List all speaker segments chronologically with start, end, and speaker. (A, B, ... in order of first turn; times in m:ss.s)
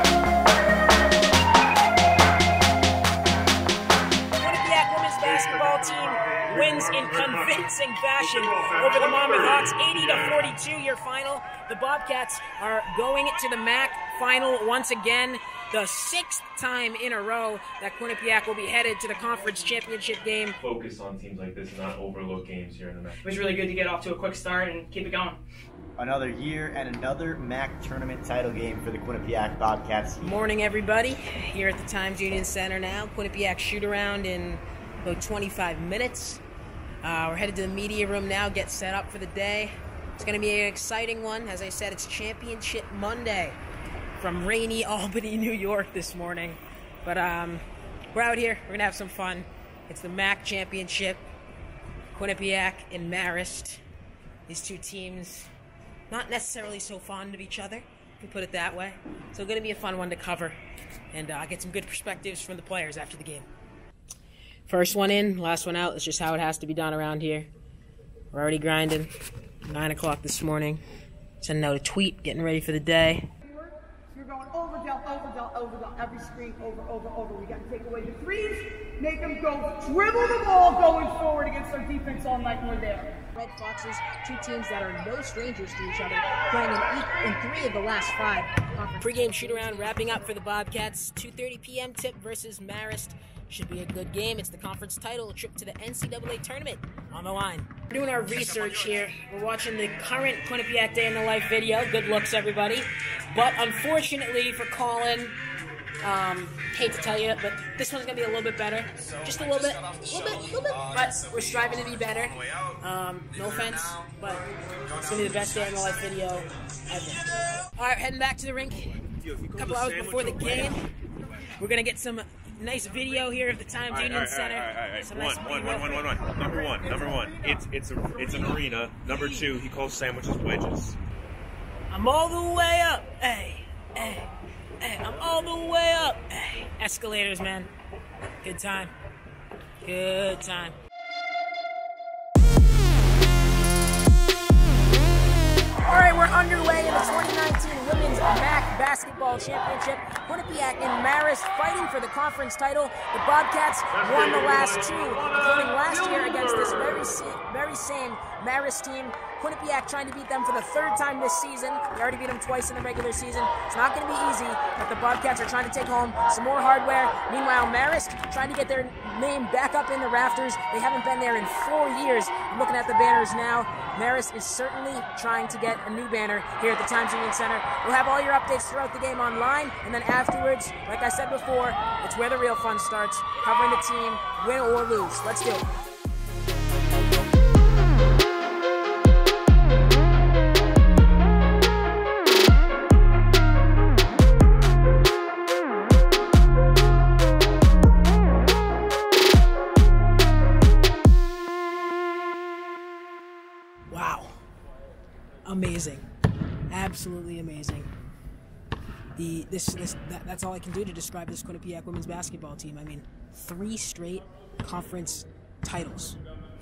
0:04.4-0:20.6 A
0:20.6-0:23.2 B
0:23.2-0:25.4 C
0:26.0-0:30.3 D
0:30.2-0:36.4 A
0:37.0-0:43.6 A
0:44.2-0:51.2 A
0:52.1-0:53.8 A
0:54.5-0:55.5 A
0:56.1-1:00.6 A
1:01.1-1:03.5 A
1:04.7-1:07.5 A
1:08.3-1:09.1 A
1:09.6-1:10.8 A
1:11.4-1:13.2 A
1:14.1-1:23.0 E
1:22.6-1:45.4 A
1:46.0-1:54.4 A
1:55.0-1:59.0 A
1:59.5-2:00.3 B
1:59.5-2:00.8 A
2:01.5-2:06.2 A
2:03.9-2:11.0 B
2:11.9-2:14.3 A
2:14.8-2:17.7 A
2:18.4-2:18.9 A
2:19.8-2:20.8 A
2:25.8-3:05.6 A
3:23.9-3:24.3 A
3:25.4-3:26.0 A
3:26.7-3:27.9 A
3:29.2-3:36.2 A